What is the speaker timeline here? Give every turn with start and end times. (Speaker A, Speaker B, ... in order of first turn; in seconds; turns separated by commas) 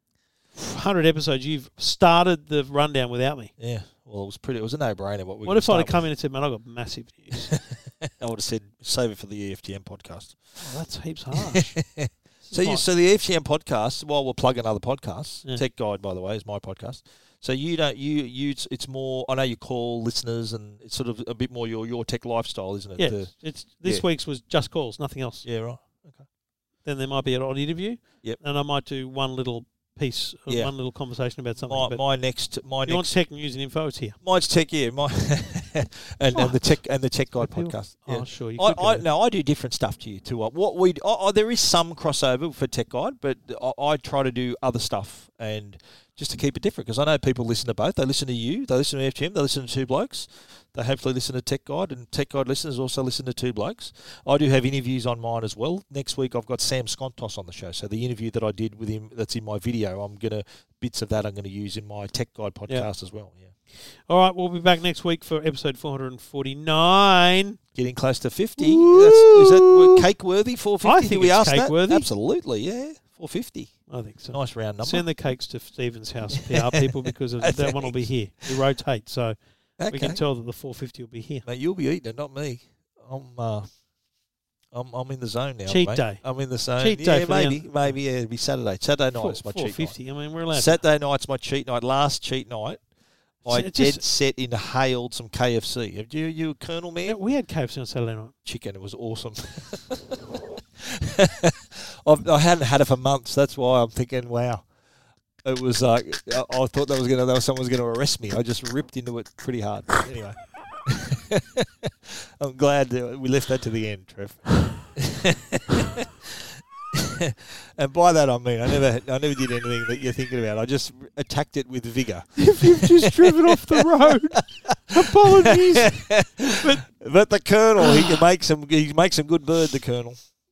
Speaker A: 0.6-3.5, Speaker B: 3.6-6.0, Speaker A: 5.5-7.5, Speaker B: 7.3-10.6, Speaker A: 10.6-11.8, Speaker B: 11.3-23.3, Speaker A: 12.5-12.8, Speaker A: 23.0-25.4, Speaker B: 25.4-26.2, Speaker A: 26.9-32.0, Speaker B: 31.6-33.1, Speaker A: 32.9-34.2, Speaker B: 34.2-63.5, Speaker A: 36.3-36.6, Speaker A: 37.4-39.0, Speaker A: 63.8-67.6, Speaker B: 67.8-73.7, Speaker A: 68.6-70.1, Speaker A: 70.8-72.1, Speaker A: 73.9-79.4, Speaker B: 74.3-75.0, Speaker B: 76.3-78.5, Speaker B: 79.8-80.2, Speaker A: 79.9-81.5, Speaker B: 81.5-83.7, Speaker B: 84.7-90.0, Speaker A: 85.7-86.2, Speaker A: 86.8-87.9, Speaker A: 89.2-90.8, Speaker B: 90.5-92.8, Speaker B: 93.4-97.2, Speaker A: 93.5-94.0, Speaker A: 97.0-98.3, Speaker B: 98.5-104.7, Speaker B: 105.4-130.2, Speaker A: 122.4-126.0, Speaker A: 126.6-126.8, Speaker A: 127.8-128.2